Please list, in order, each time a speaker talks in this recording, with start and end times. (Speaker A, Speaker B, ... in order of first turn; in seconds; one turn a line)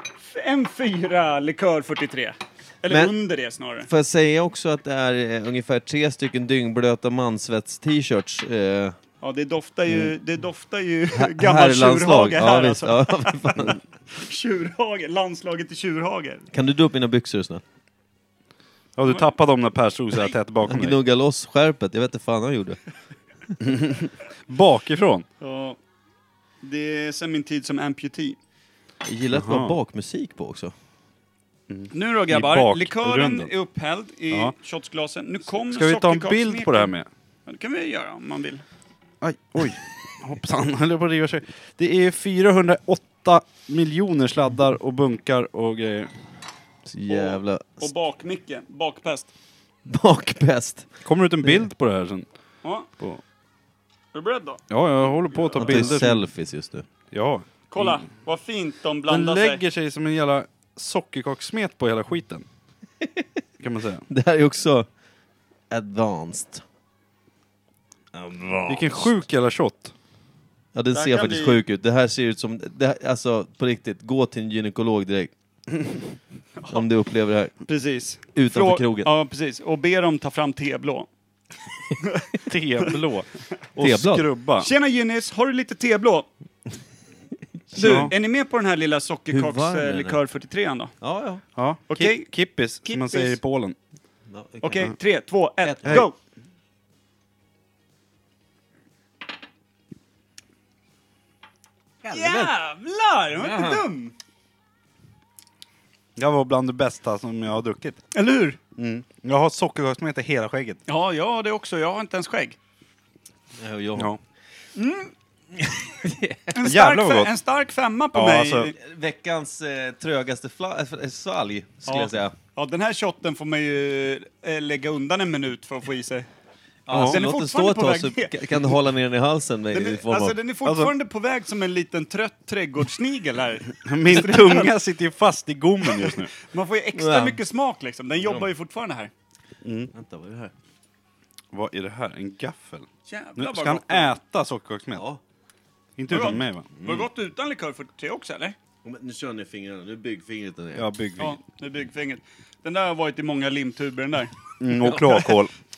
Speaker A: 0.2-3.9
Speaker B: 2.9-3.1
Speaker B: 3.8-8.9
Speaker A: 9.2-16.4
Speaker B: 11.1-13.8
Speaker B: 16.5-17.6
Speaker C: 18.9-21.0
Speaker B: 20.6-22.8
Speaker C: 23.6-25.2
Speaker A: 25.4-25.8
Speaker A: 26.6-28.4
Speaker B: 29.0-30.7
Speaker C: 29.3-29.8
Speaker C: 31.7-33.5
Speaker A: 31.9-36.9
Speaker C: 35.6-37.1
Speaker A: 37.5-38.6
Speaker C: 39.2-46.1
Speaker B: 46.9-47.9
Speaker A: 47.1-49.3
Speaker B: 49.9-50.9
Speaker C: 51.0-52.3
Speaker A: 52.6-52.9
Speaker A: 54.1-56.0
Speaker C: 54.7-56.2
Speaker B: 55.6-56.9
Speaker C: 57.1-58.0
Speaker A: 57.7-59.6
Speaker C: 59.1-62.4
Speaker C: 63.6-64.0
Speaker B: 64.1-64.9
Speaker B: 65.7-66.6
Speaker B: 68.1-69.1
Speaker C: 68.7-69.9
Speaker B: 70.7-75.3
Speaker A: 70.9-71.6
Speaker B: 76.7-77.5
Speaker A: 77.7-81.1
Speaker B: 78.3-79.1
Speaker A: 82.0-82.3
Speaker C: 82.4-84.7
Speaker B: 83.8-84.2
Speaker A: 84.6-86.2
Speaker A: 87.7-90.9
Speaker B: 87.7-88.1
Speaker C: 87.8-88.1
Speaker B: 89.3-90.2
Speaker B: 91.0-91.4
Speaker C: 91.5-93.8
Speaker A: 91.9-92.3
Speaker A: 92.8-93.4
Speaker B: 94.3-94.9
Speaker A: 94.6-96.1
Speaker B: 95.6-96.0
Speaker B: 102.0-102.5
Speaker A: 102.1-104.1
Speaker B: 103.4-103.8
Speaker C: 106.2-108.0
Speaker A: 108.1-108.6
Speaker C: 108.8-110.8
Speaker A: 110.9-112.6
Speaker B: 113.5-114.1
Speaker A: 114.7-115.1
Speaker B: 115.6-116.5
Speaker A: 116.5-118.7
Speaker C: 116.6-117.3
Speaker C: 118.1-118.7
Speaker B: 118.8-122.3
Speaker A: 121.8-126.3
Speaker B: 126.9-130.4
Speaker C: 126.9-127.2
Speaker A: 126.9-128.3
Speaker A: 129.7-134.7
Speaker C: 130.6-130.9
Speaker C: 133.8-136.3
Speaker A: 135.8-139.1
Speaker B: 136.9-137.4
Speaker B: 138.2-138.5
Speaker C: 139.6-139.9
Speaker B: 139.9-140.5
Speaker C: 141.5-145.0
Speaker A: 143.1-144.1
Speaker B: 144.9-145.2
Speaker C: 146.0-146.8
Speaker A: 146.1-148.6
Speaker B: 148.8-150.8
Speaker C: 150.7-151.4
Speaker A: 151.2-154.3
Speaker C: 154.6-155.5
Speaker B: 154.8-155.3